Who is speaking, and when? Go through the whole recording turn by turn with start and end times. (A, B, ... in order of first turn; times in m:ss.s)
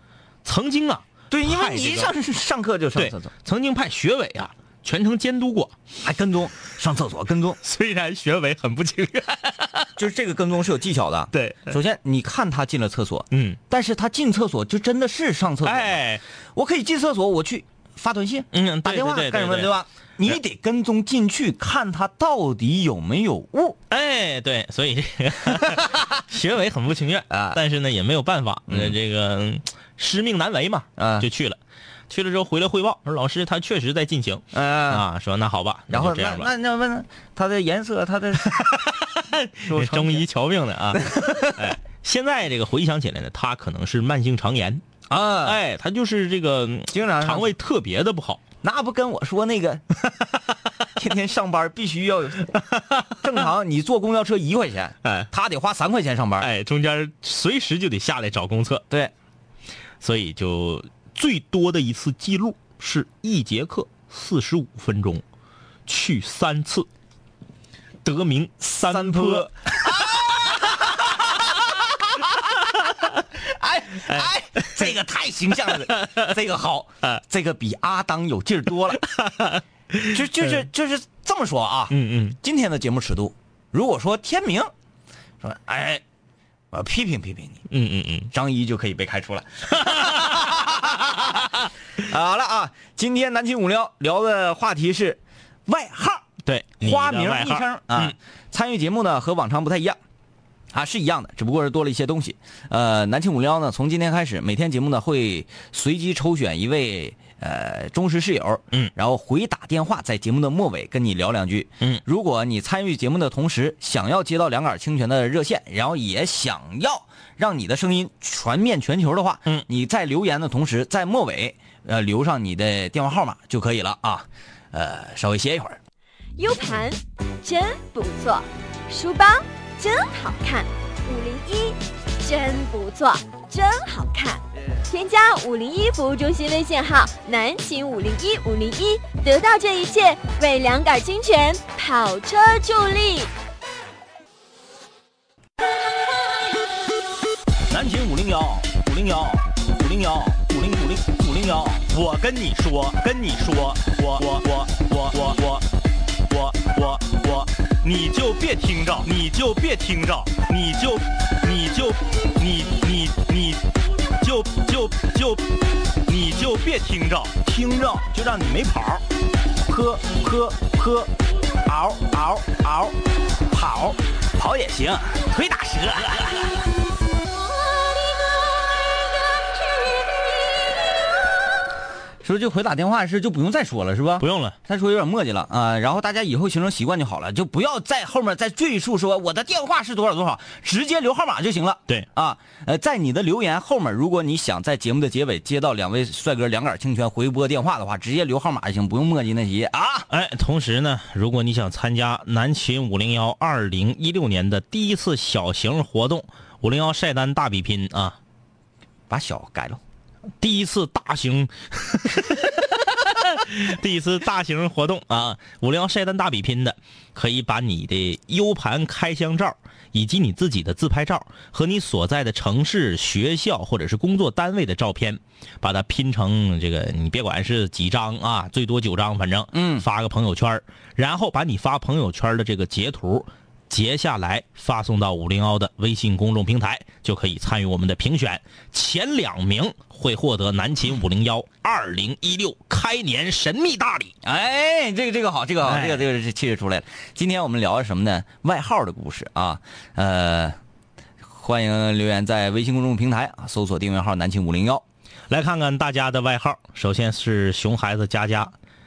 0:00.4-0:02.2 A
0:01.3-0:03.3 B
0:03.0-0:05.8 A
0:06.0-0:07.6 B
0:07.6-0:09.9 A
0:10.0-0:16.0 B
0:11.3-0:11.8 A
0:13.3-0:13.6 A
0:15.6-0:16.2 A
0:16.6-0:23.8 B
0:18.5-0:19.7 A
0:23.9-0:31.6 A
0:27.3-0:27.6 B
0:28.7-0:29.0 B
0:31.0-0:31.3 B
0:32.1-0:36.5 A
0:34.5-0:35.0 B
0:35.9-0:38.8 B
0:38.4-0:44.8 A
0:39.6-0:40.3 B
0:41.0-0:41.6 B
0:45.1-0:45.6 B
0:45.4-0:48.4 A
0:46.9-0:47.5 B
0:48.6-0:49.8 B
0:51.0-0:52.6 B
0:52.5-0:53.3 A
0:53.2-0:56.5 B
0:55.0-0:55.3 A
0:56.4-0:58.9 A
1:00.0-1:05.2 A
1:05.9-1:06.9 A
1:08.0-1:11.1 A
1:08.7-1:11.6 B
1:13.4-1:19.0 B
1:14.1-1:14.9 A
1:15.7-1:16.3 A
1:18.9-1:20.7 A
1:20.1-1:24.7 B
1:21.9-1:22.4 A
1:25.4-1:26.0 B
1:26.7-1:27.6 B
1:27.7-1:28.3 A
1:28.3-1:31.4 B
1:29.8-1:31.5 A
1:32.0-1:36.2 B
1:36.4-1:38.2 A
1:36.8-1:40.0 B
1:40.7-2:05.8 B
2:06.4-2:23.3 C
2:27.7-2:35.7 A
2:36.3-2:43.7 A
2:44.2-2:49.0 A
2:49.7-2:51.1 B
2:51.7-2:53.0 B
2:53.5-2:55.4 B
2:55.3-2:56.6 A
3:02.2-3:20.1 B
3:04.2-3:04.6 A
3:20.1-3:28.2 A
3:29.1-3:29.8 B
3:30.4-4:04.1 A
3:49.5-3:49.9 B
4:04.2-4:10.6 B
4:05.6-4:06.0 A
4:11.3-4:14.8 B
4:15.3-4:18.5 A